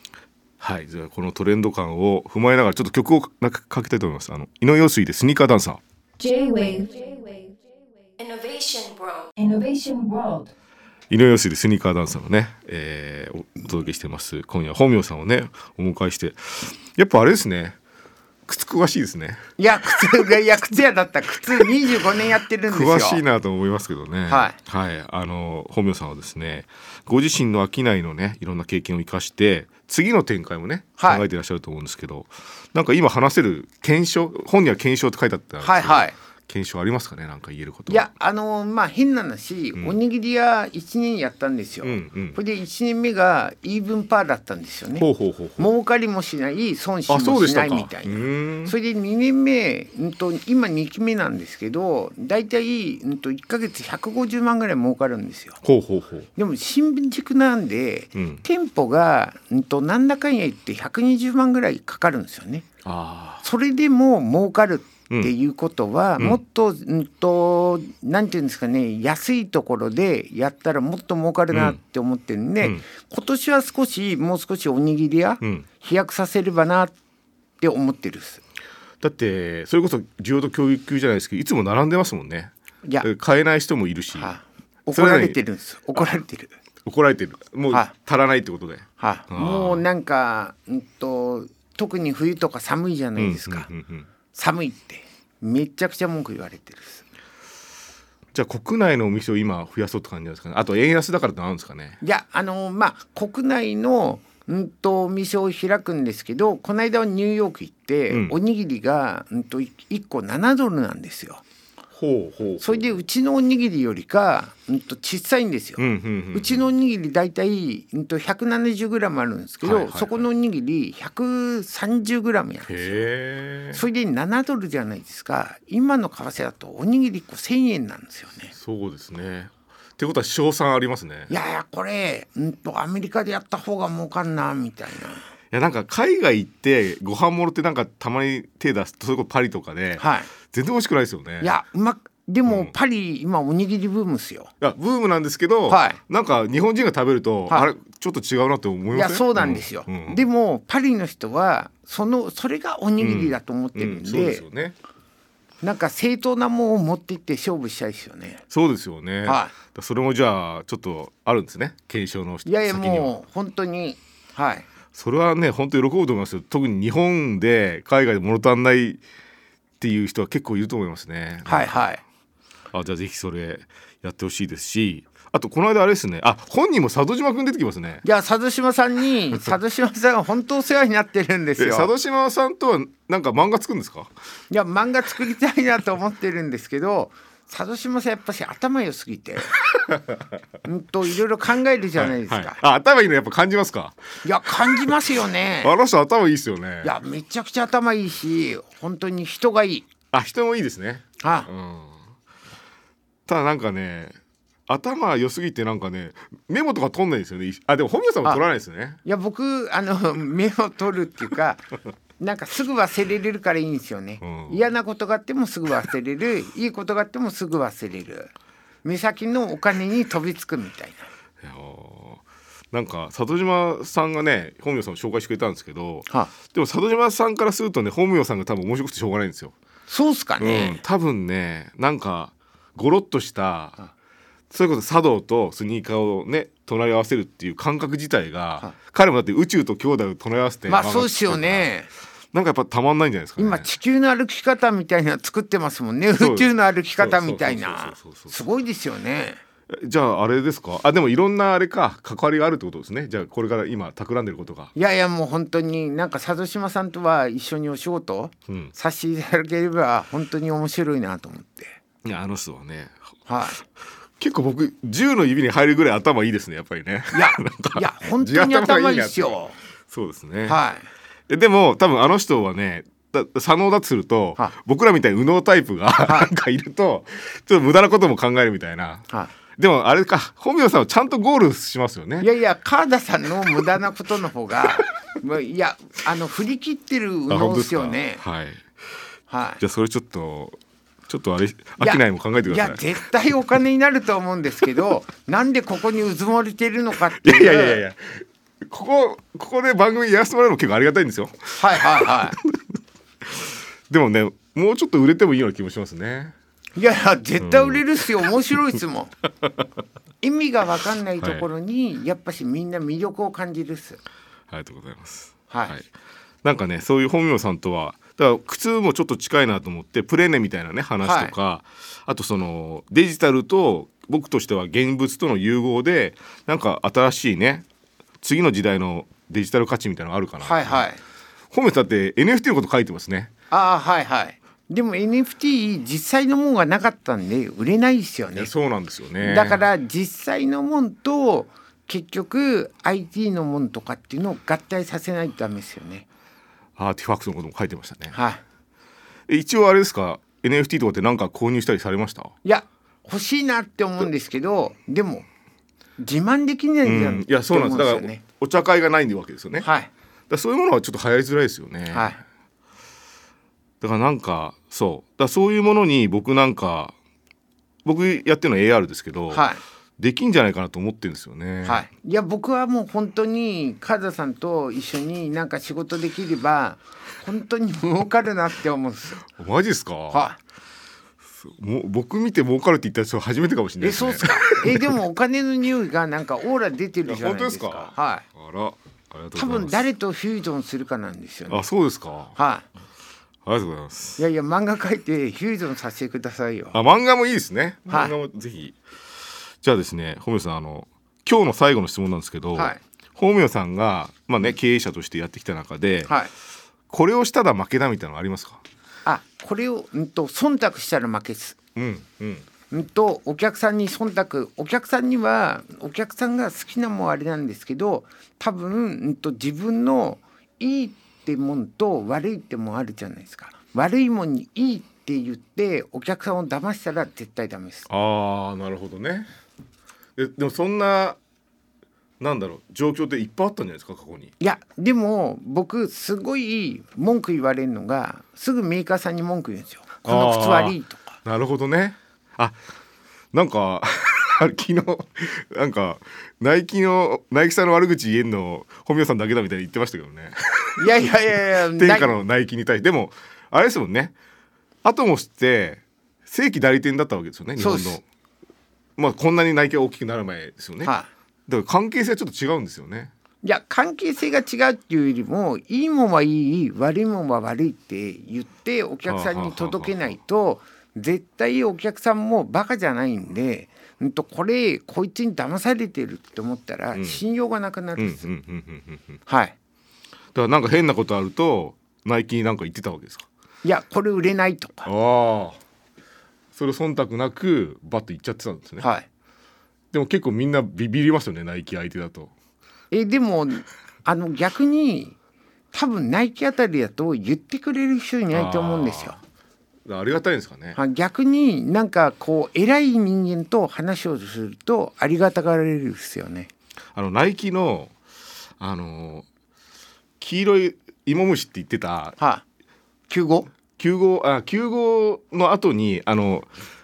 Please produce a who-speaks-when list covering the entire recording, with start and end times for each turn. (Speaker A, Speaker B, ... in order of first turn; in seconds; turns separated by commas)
Speaker A: 0.6-5.8, Speaker B: 6.2-10.5, Speaker A: 11.1-17.8, Speaker A: 18.5-19.4, Speaker C: 19.6-23.2, Speaker A: 19.9-20.2, Speaker A: 22.7-38.1, Speaker C: 24.3-24.6, Speaker C: 31.0-31.2, Speaker C: 35.6-36.1, Speaker C: 37.9-45.1, Speaker A: 41.8-42.4, Speaker A: 45.0-45.7, Speaker C: 45.6-55.6, Speaker A: 47.1-48.8, Speaker A: 55.6-56.3, Speaker C: 56.4-62.7, Speaker A: 58.1-58.4, Speaker A: 62.8-63.5, Speaker C: 63.4-76.9, Speaker A: 71.5-71.8, Speaker C: 77.6-78.4, Speaker A: 79.0-84.3, Speaker C: 84.1-86.5, Speaker A: 84.9-85.4, Speaker A: 86.8-89.8, Speaker C: 89.0-93.7, Speaker A: 93.2-94.1, Speaker C: 94.3-97.0, Speaker A: 98.3-102.0, Speaker C: 102.0-111.4, Speaker A: 108.1-108.4, Speaker A: 112.0-113.0, Speaker C: 112.6-115.8, Speaker A: 115.8-116.7, Speaker C: 116.3-122.9, Speaker A: 119.6-120.3, Speaker A: 122.7-123.8, Speaker C: 123.7-128.5, Speaker A: 128.5-131.3, Speaker C: 131.3-135.3, Speaker A: 135.5-141.5, Speaker C: 140.0-140.3, Speaker C: 141.4-144.5, Speaker A: 142.5-142.7, Speaker A: 144.6-150.2, Speaker C: 145.7-146.0, Speaker C: 148.9-154.4, Speaker A: 153.0-154.8, Speaker C: 155.6-158.4, Speaker A: 158.5-163.1, Speaker C: 159.2-159.5, Speaker C: 162.4-164.7, Speaker A: 164.9-169.0, Speaker A: 169.8-171.8, Speaker C: 171.5-172.0, Speaker A: 172.7-178.0, Speaker C: 178.0-181.9, Speaker A: 181.6-184.1, Speaker C: 184.5-189.6, Speaker A: 189.9-190.2, Speaker C: 190.6-192.6, Speaker A: 192.0-194.0, Speaker C: 194.2-195.7, Speaker A: 194.6-195.0, Speaker A: 195.6-197.0, Speaker C: 196.8-199.9, Speaker A: 200.1-202.0, Speaker C: 201.2-201.5, Speaker A: 203.3-204.2, Speaker A: 204.7-209.0, Speaker C: 209.1-218.3, Speaker A: 214.2-214.6, Speaker C: 218.8-221.1, Speaker A: 221.4-229.5, Speaker C: 229.9-230.8, Speaker A: 230.4-233.8, Speaker A: 234.5-241.7, Speaker C: 240.7-241.9, Speaker A: 242.3-243.7, Speaker C: 243.4-249.4, Speaker A: 246.2-248.3, Speaker A: 249.7-254.7, Speaker C: 254.8-261.8, Speaker A: 258.5-258.7, Speaker A: 262.0-263.0, Speaker C: 263.3-263.6, Speaker A: 264.2-270.6, Speaker C: 267.1-269.6, Speaker C: 270.4-270.9, Speaker A: 271.3-282.3, Speaker C: 276.0-276.3, Speaker C: 282.2-288.2, Speaker A: 287.3-288.9, Speaker C: 289.3-289.6, Speaker A: 289.6-290.6, Speaker A: 291.1-292.9, Speaker C: 291.8-297.8, Speaker A: 297.2-302.6, Speaker C: 301.6-302.4, Speaker A: 303.2-306.4, Speaker C: 306.8-309.1, Speaker A: 307.4-307.8, Speaker C: 310.2-314.0, Speaker A: 311.2-311.5, Speaker A: 314.5-315.9, Speaker C: 315.5-315.8, Speaker A: 316.4-327.7, Speaker C: 321.0-321.3, Speaker A: 328.2-330.9, Speaker C: 330.4-331.0, Speaker A: 331.5-333.3, Speaker C: 333.5-338.5, Speaker A: 338.4-339.6, Speaker C: 339.2-346.1, Speaker A: 346.8-348.2, Speaker C: 348.1-348.4, Speaker A: 349.3-352.3, Speaker C: 352.4-355.2, Speaker C: 356.0-358.2, Speaker A: 356.8-359.7, Speaker C: 359.6-359.9, Speaker A: 360.3-362.2, Speaker C: 361.9-362.2, Speaker A: 363.8-366.9, Speaker A: 367.9-369.5, Speaker C: 369.3-369.6, Speaker A: 370.0-371.9, Speaker C: 371.6-379.2, Speaker A: 379.3-380.3, Speaker C: 380.1-380.4, Speaker A: 381.4-384.9, Speaker C: 383.8-388.3, Speaker A: 387.1-389.8, Speaker C: 389.4-391.6, Speaker A: 391.5-392.4, Speaker C: 392.4-392.7, Speaker A: 393.4-394.2, Speaker C: 394.2-396.8, Speaker A: 396.7-398.8, Speaker C: 397.9-398.1, Speaker A: 399.6-406.1, Speaker C: 402.6-402.8, Speaker A: 406.9-408.6, Speaker C: 409.1-411.6, Speaker A: 411.8-412.5, Speaker C: 412.7-427.9, Speaker A: 427.9-429.3, Speaker A: 430.2-431.2, Speaker A: 432.2-434.3, Speaker C: 434.4-441.2, Speaker A: 440.1-442.6, Speaker A: 443.3-451.1, Speaker C: 450.8-452.2, Speaker A: 451.6-454.1, Speaker A: 454.8-458.0, Speaker C: 457.6-458.0, Speaker A: 459.0-460.9, Speaker C: 460.8-461.1, Speaker A: 461.5-463.1, Speaker C: 463.4-478.3, Speaker A: 469.1-470.0, Speaker A: 476.9-477.2, Speaker A: 478.0-479.2, Speaker C: 479.3-479.6, Speaker A: 480.3-483.3, Speaker C: 483.6-484.9, Speaker A: 484.9-485.6, Speaker A: 486.6-488.9, Speaker C: 488.8-489.1, Speaker A: 489.9-492.3, Speaker C: 492.9-495.1, Speaker C: 495.7-499.2, Speaker A: 498.3-499.2, Speaker A: 499.9-500.8, Speaker C: 500.8-506.5, Speaker A: 506.9-507.9, Speaker A: 508.6-509.3, Speaker A: 510.2-512.2, Speaker C: 512.2-512.4, Speaker C: 513.1-513.5, Speaker A: 513.8-516.5